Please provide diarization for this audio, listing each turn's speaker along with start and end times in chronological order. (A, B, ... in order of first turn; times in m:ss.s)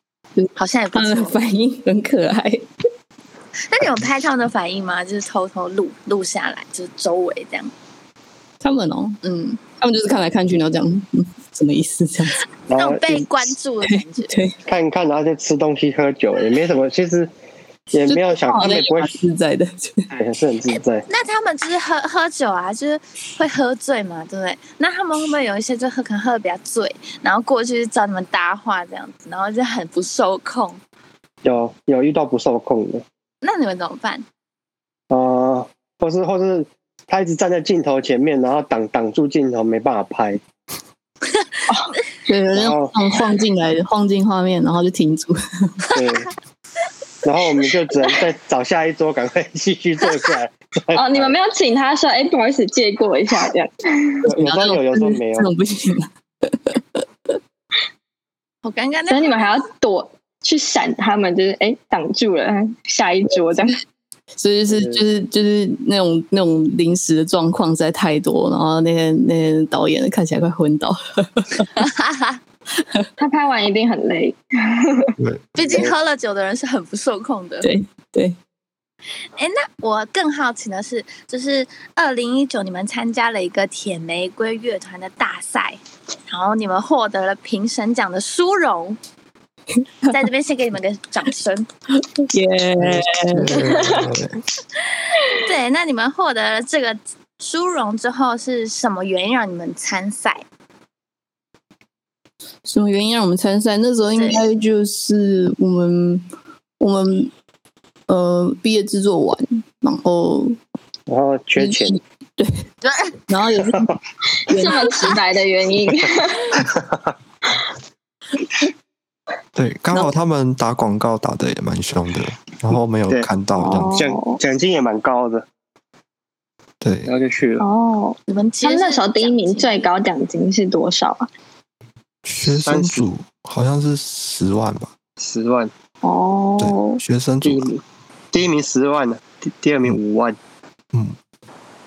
0:00.4-0:02.6 A
0:00.6-0:01.4 B
0:03.7-0:07.7 B
0:08.6-0:12.4 A
0:12.7-0:13.3 C
0:12.7-0:14.4 B
0:13.9-0:14.6 A
0:14.7-0:17.3 C
0:17.9-0:19.1 C
0:18.0-0:20.1 A
0:20.1-0:21.1 C
0:21.1-0:30.8 B
0:31.4-0:33.0 C
0:33.4-0:34.2 B
0:35.1-0:40.4 C
0:41.7-0:42.0 D
0:42.3-0:45.9 A
0:42.5-0:43.0 C
0:45.9-0:46.3 C
0:47.2-0:51.4 C
0:50.9-0:54.2 D
0:54.2-0:57.0 A
0:54.3-0:55.5 C
0:58.6-0:59.6 B
0:59.1-1:03.8 D
1:04.4-1:11.7 A
1:11.8-1:12.4 B
1:13.2-1:15.1 D
1:15.6-1:17.7 B
1:15.6-1:15.9 C
1:17.6-1:18.4 A
1:19.4-1:29.0 B
1:30.1-1:31.7 B
1:32.3-1:33.6 A
1:32.9-1:34.4 E
1:33.5-1:34.1 D
1:35.3-1:40.4 B
1:42.6-1:46.3 A
1:44.2-1:44.5 B
1:46.8-1:47.3 A
1:48.1-1:50.6 A
1:51.1-1:52.0 C
1:51.6-1:52.7 A
1:52.8-1:53.1 B
1:53.3-1:53.9 A
1:54.5-1:56.6 D
1:54.5-1:55.2 A
1:56.6-1:57.1 C
1:59.6-2:04.1 E
2:03.6-2:04.4 D
2:03.9-2:05.5 C
2:06.8-2:07.1 E
2:07.1-2:07.7 C
2:07.6-2:11.3 D
2:08.3-2:09.9 B
2:12.2-2:15.0 E
2:12.5-2:13.0 C
2:15.2-2:15.7 C
2:16.0-2:17.0 D
2:16.6-2:17.7 E
2:17.4-2:20.4 C
2:20.9-2:21.2 E